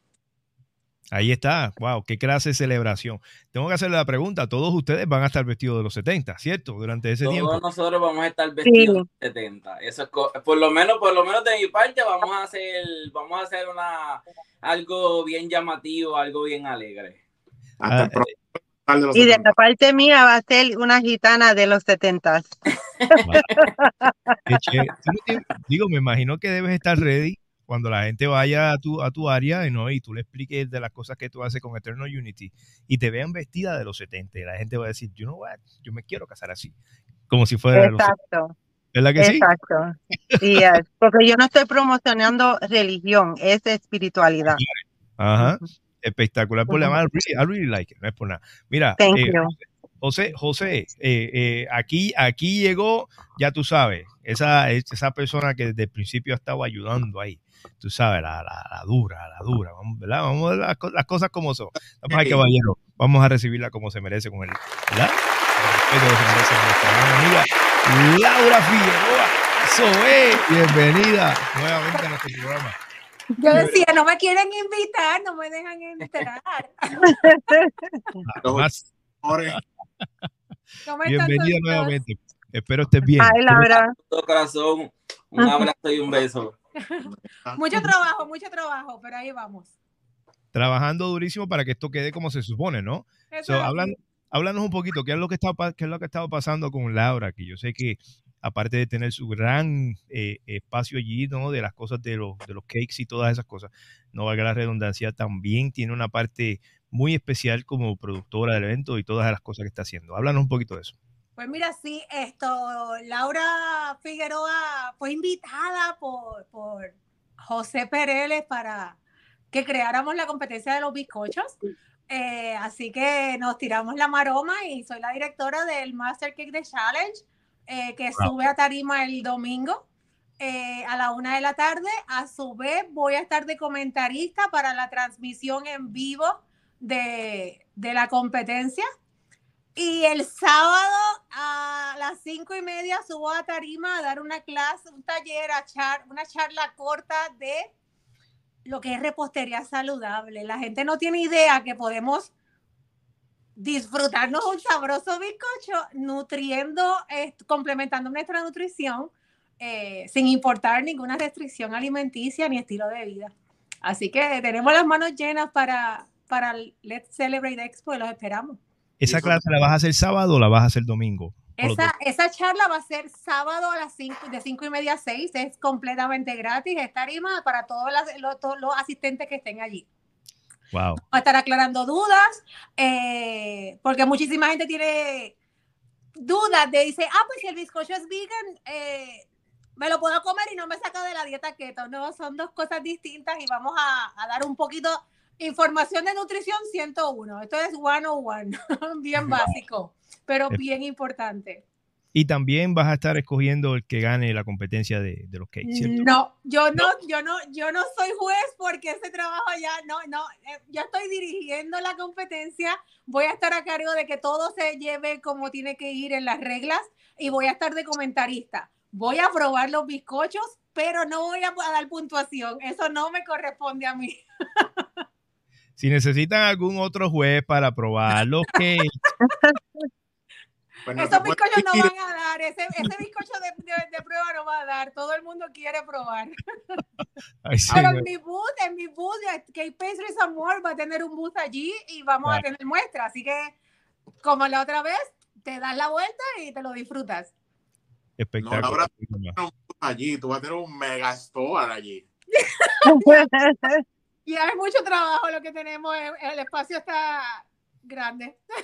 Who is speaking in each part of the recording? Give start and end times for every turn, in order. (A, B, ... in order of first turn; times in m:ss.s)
0:01.1-0:07.6 A
0:07.2-0:17.2 B
0:08.6-0:09.0 C
0:17.8-0:19.5 D
0:17.8-0:18.3 A
0:19.1-0:22.5 C
0:23.1-0:24.3 C
0:24.5-0:36.7 A
0:37.3-0:38.1 A
0:37.7-0:38.5 C
0:38.9-0:39.4 A
0:39.2-0:44.6 C
0:40.3-0:40.6 A
0:44.5-0:49.5 A
0:46.7-0:46.9 C
0:49.0-0:49.5 C
0:50.0-1:12.7 A
1:02.1-1:02.4 D
1:13.4-1:17.5 E
1:13.5-1:13.8 A
1:17.0-1:17.9 C
1:18.2-1:18.8 A
1:18.4-1:19.6 D
1:20.8-1:22.0 E
1:21.0-1:23.7 A
1:23.2-1:23.9 C
1:24.0-1:26.5 B
1:25.4-1:25.7 C
1:27.0-1:29.7 E
1:27.0-1:27.6 D
1:30.5-1:50.9 A
1:33.3-1:33.9 E
1:51.4-1:59.0 E
1:59.5-2:01.6 E
2:02.1-2:09.8 E
2:10.4-2:18.8 E
2:19.8-2:27.7 E
2:28.6-2:32.3 E
2:33.6-2:48.6 E
2:49.0-2:51.9 A
2:49.0-2:49.4 D
2:51.6-2:59.8 E
3:00.7-3:01.0 A
3:01.0-3:05.3 E
3:06.2-3:09.2 E
3:09.8-3:21.6 E
3:22.1-3:26.1 A
3:25.6-3:45.0 E
3:45.8-3:48.9 A
3:49.2-3:49.6 C
3:50.9-3:51.9 D
3:51.0-3:56.4 E
3:57.4-3:58.0 A
3:57.7-4:03.5 E
4:04.2-4:07.3 E
4:08.2-4:09.4 A
4:08.4-4:12.0 D
4:12.3-4:13.3 E
4:12.9-4:13.8 C
4:14.2-4:18.4 E